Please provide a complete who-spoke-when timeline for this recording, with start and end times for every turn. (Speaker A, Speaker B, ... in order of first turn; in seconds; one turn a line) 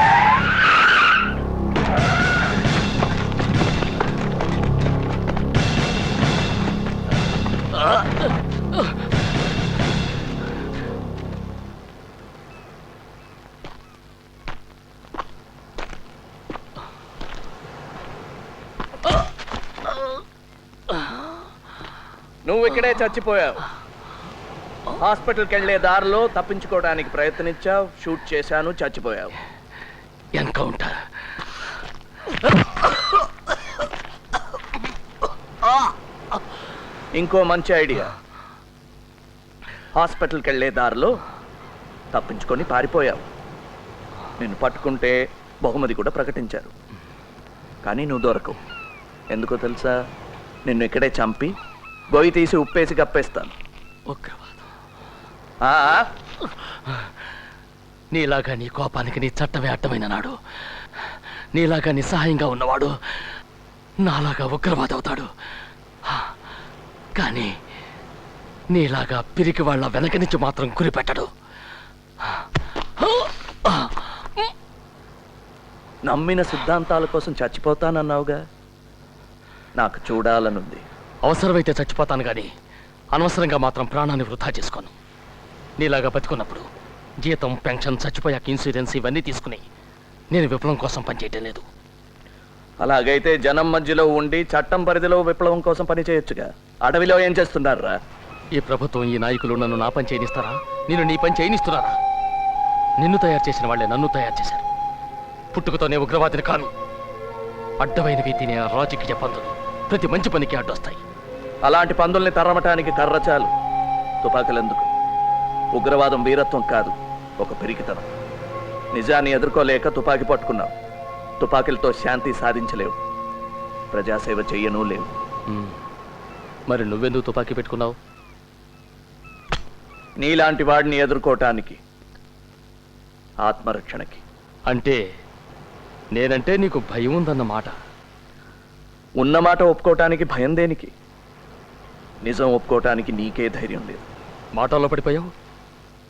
Speaker A: 22.4-23.7
Speaker A: 25.0-29.3
Speaker B: 30.3-31.0
Speaker A: 37.2-38.1
Speaker A: 40.0-41.1
Speaker A: 42.1-43.3
Speaker A: 44.4-46.7
Speaker A: 47.8-48.6
Speaker A: 49.3-49.9
Speaker A: 50.7-51.5
Speaker A: 52.1-53.5
Speaker B: 54.1-54.6
Speaker A: 55.6-56.1
Speaker B: 56.6-57.1
Speaker B: 58.1-60.4
Speaker B: 61.5-63.3
Speaker B: 64.0-65.3
Speaker B: 66.1-66.3
Speaker B: 67.2-67.5
Speaker B: 68.7-71.3
Speaker B: 73.0-74.5
Speaker A: 76.1-78.4
Speaker A: 79.8-80.8
Speaker B: 81.2-82.5
Speaker B: 83.1-84.9
Speaker B: 85.8-86.7
Speaker B: 87.2-89.6
Speaker B: 90.3-91.7
Speaker A: 92.8-98.0
Speaker B: 98.6-102.0
Speaker B: 103.0-104.6
Speaker B: 105.5-106.7
Speaker B: 107.8-111.0
Speaker A: 111.7-113.5
Speaker A: 114.2-114.9
Speaker A: 115.8-118.1
Speaker A: 118.9-120.7
Speaker A: 121.4-123.0
Speaker A: 123.9-125.1
Speaker B: 125.5-125.8
Speaker B: 126.7-128.0
Speaker A: 130.2-131.8
Speaker A: 133.4-134.2
Speaker B: 134.7-135.0
Speaker B: 136.2-137.7
Speaker A: 139.2-140.9
Speaker A: 142.2-144.1
Speaker B: 144.6-145.3